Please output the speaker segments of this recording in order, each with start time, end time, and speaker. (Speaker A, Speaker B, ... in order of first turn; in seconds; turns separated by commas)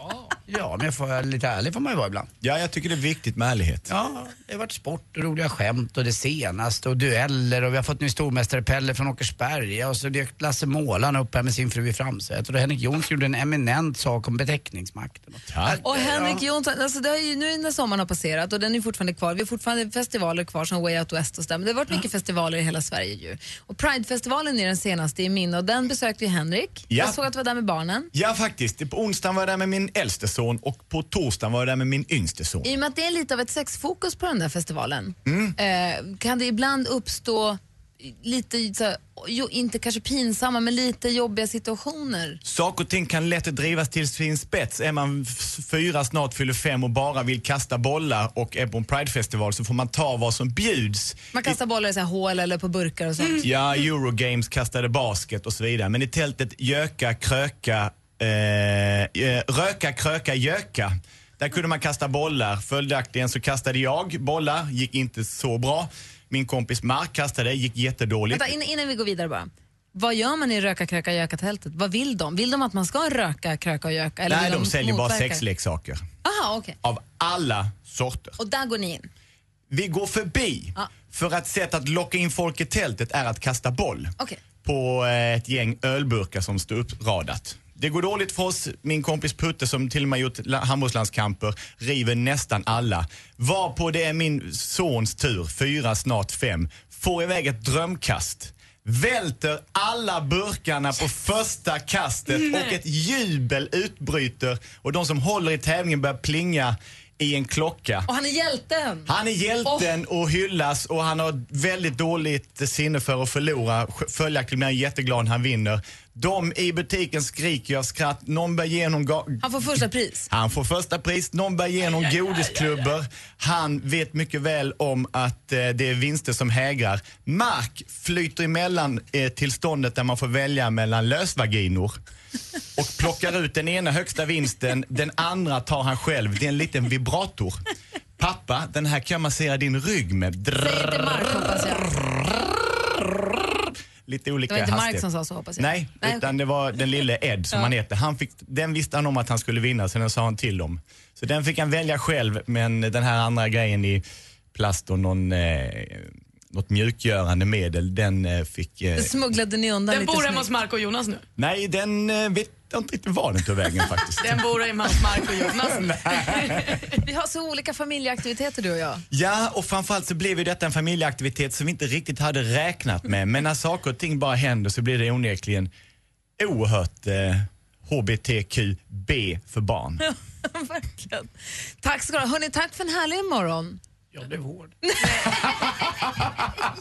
Speaker A: 0.4-2.3, Speaker B: 2.4-3.9, Speaker A: 3.9-16.4, Speaker B: 15.5-15.8, Speaker C: 15.8-28.1, Speaker B: 26.9-27.2, Speaker B: 28.1-32.7, Speaker C: 32.6-42.4, Speaker B: 35.3-35.5, Speaker B: 42.4-51.6, Speaker C: 51.3-53.5, Speaker B: 53.4-68.5, Speaker C: 68.3-75.4, Speaker B: 74.3-76.0, Speaker C: 76.2-76.8, Speaker B: 76.8-78.4, Speaker C: 78.4-79.1, Speaker B: 79.7-108.1, Speaker D: 102.3-102.7, Speaker C: 108.1-109.1, Speaker B: 109.1-119.5, Speaker C: 119.4-120.3, Speaker B: 120.3-132.0, Speaker B: 132.8-137.6, Speaker B: 138.2-141.2, Speaker C: 140.6-142.1, Speaker B: 144.1-145.1, Speaker C: 144.5-146.3, Speaker B: 145.6-154.0, Speaker B: 154.5-159.1, Speaker C: 158.9-160.4, Speaker D: 159.9-161.2, Speaker B: 161.4-164.4, Speaker D: 164.2-166.8, Speaker C: 167.0-169.0, Speaker B: 169.1-175.7, Speaker B: 176.4-180.0, Speaker C: 180.0-183.8, Speaker A: 184.1-184.7, Speaker C: 184.8-186.0